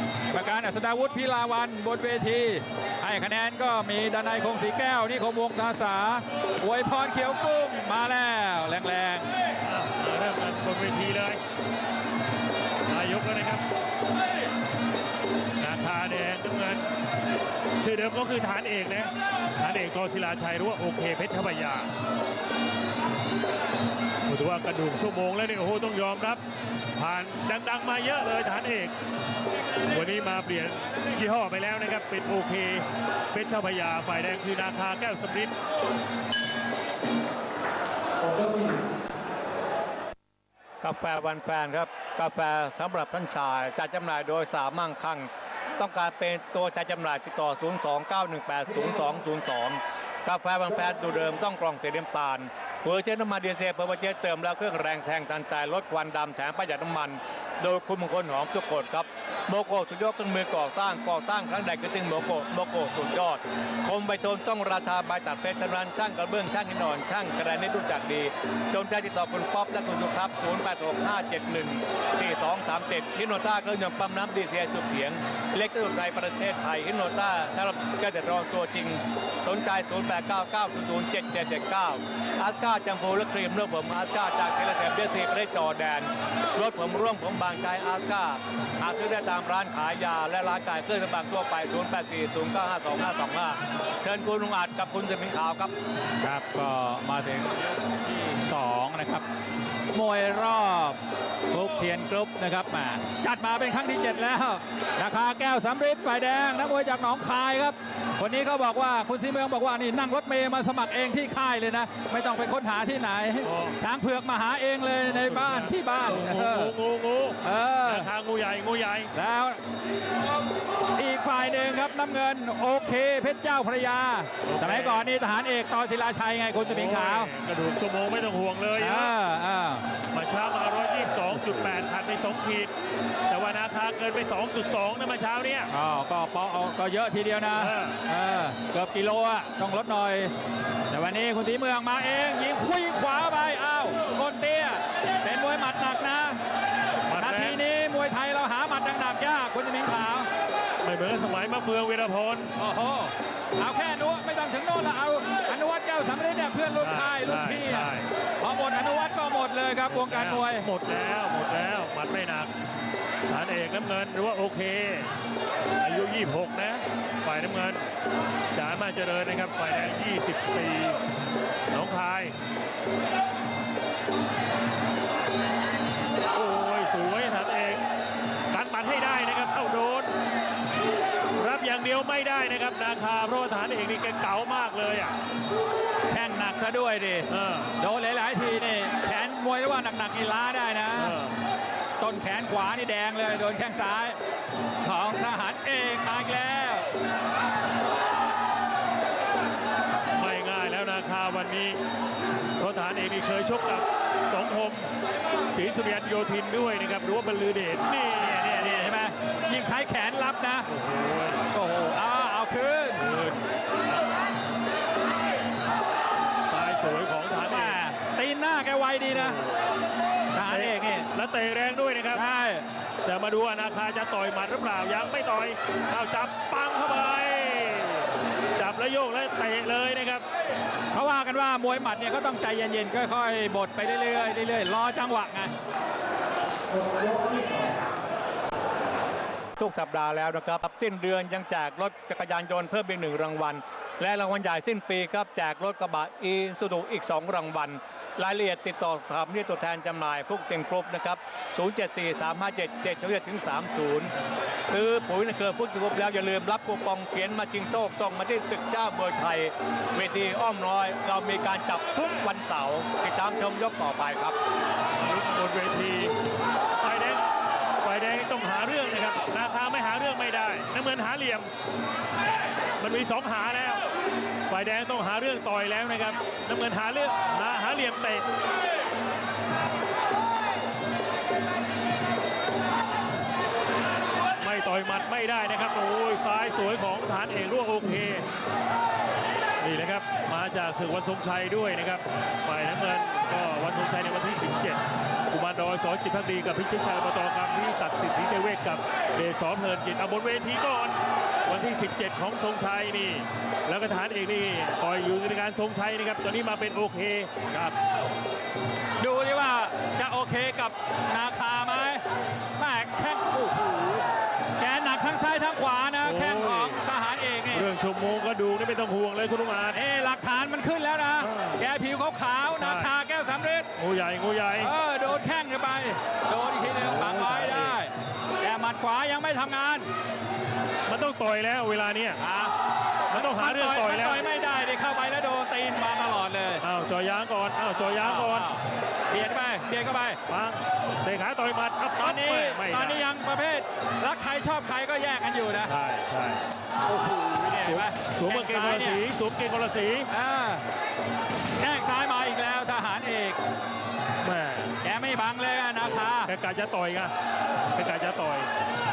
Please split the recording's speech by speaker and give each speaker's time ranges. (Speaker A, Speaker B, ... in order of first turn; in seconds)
Speaker A: 0.3-9.3, 96.2-99.2, 99.9-101.0, 101.5-116.7, 117.4-118.1, 119.1-119.6, 121.0-127.3, 128.8-129.8, 135.7-140.3, 140.9-146.4, 147.1-150.3, 152.6-160.7, 186.1-191.2, 192.0-194.2, 194.8-196.9, 208.2-210.7, 211.5-213.1, 217.5-219.4, 220.3-221.1, 222.1-222.7, 230.9-235.5, 309.0-312.0, 312.6-314.1, 314.6-317.7, 319.7-323.7, 324.6-329.9, 332.2-332.6, 333.1-336.6, 337.8-340.2, 342.0-345.7, 346.9-349.0, 350.1-350.6, 351.6-353.4, 354.8-356.3
Speaker B: 9.7-11.4, 12.9-13.7, 15.6-16.9, 17.8-21.9, 24.3-26.4, 27.0-28.9, 29.9-35.5, 113.4-113.8, 115.0-119.1, 124.5-125.1, 126.7-129.2, 130.1-132.7, 133.3-135.7, 137.5-138.0, 147.1-147.6, 150.8-152.5, 156.8-158.1, 159.9-162.5, 163.3-165.1, 165.8-167.9, 168.5-171.0, 171.7-172.4, 176.3-177.8, 178.5-180.1, 181.4-185.2, 187.3-187.7, 190.9-191.3, 200.1-201.8, 202.6-204.9, 205.5-208.7, 210.7-211.4, 213.0-213.4, 216.4-217.8, 219.1-219.6, 220.5-222.2, 223.1-230.2, 265.0-266.2, 266.8-267.2, 267.8-271.5, 272.8-273.8, 274.5-278.3, 284.4-288.3, 289.6-307.8, 316.0-316.8, 317.5-319.8, 321.2-321.6, 322.5-322.9, 323.8-324.7, 326.8-327.8, 330.9-332.2, 333.1-334.2, 336.6-338.5, 340.3-343.0, 345.6-346.4, 347.6-350.1, 354.2-354.8, 355.8-357.1, 357.7-358.5
Speaker C: 40.8-95.7, 239.6-254.1, 254.7-264.4